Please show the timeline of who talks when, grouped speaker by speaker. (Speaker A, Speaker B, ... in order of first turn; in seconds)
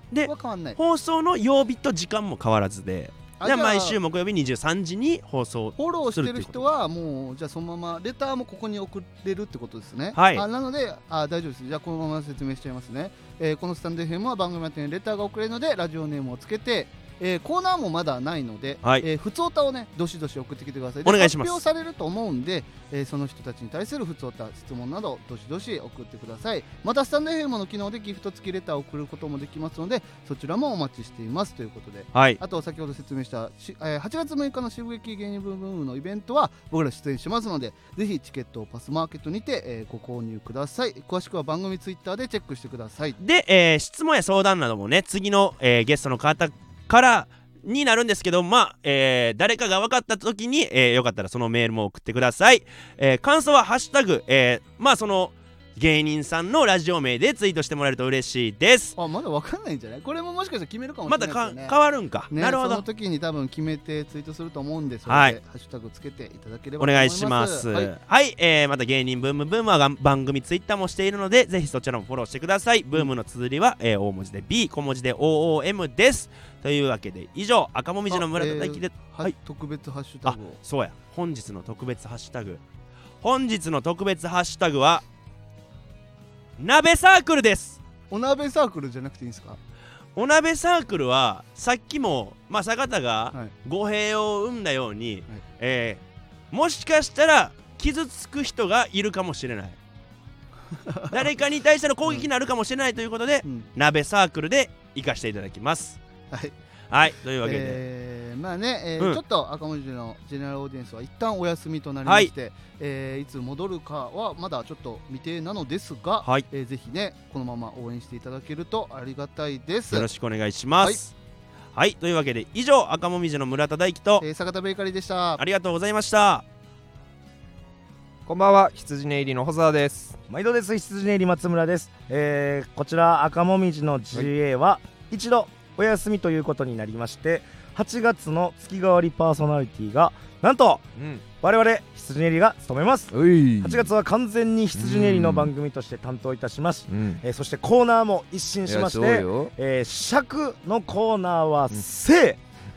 Speaker A: 0.1-6.7, 10.1-10.4, 21.0-21.6, 32.1-32.4, 43.2-59.0, 61.1-62.9, 65.1-65.4, 66.8-79.3, 80.2-82.6, 83.2-85.0, 86.6-87.8, 90.2-99.8, 101.1-106.0, 106.9-107.8, 112.1-112.3, 119.9-121.1, 121.8-124.3, 125.4-126.5
Speaker B: 0.2-0.8, 3.4-4.0, 5.8-43.2, 59.0-61.8, 62.3-67.9, 78.1-80.6, 88.1-89.6, 100.7-101.3, 103.4-103.7, 107.4-120.1, 124.2-125.4
Speaker C: 128.3-130.2, 143.1-143.9, 144.7-145.5, 146.9-147.2, 148.7-149.5
Speaker D: 130.3-152.4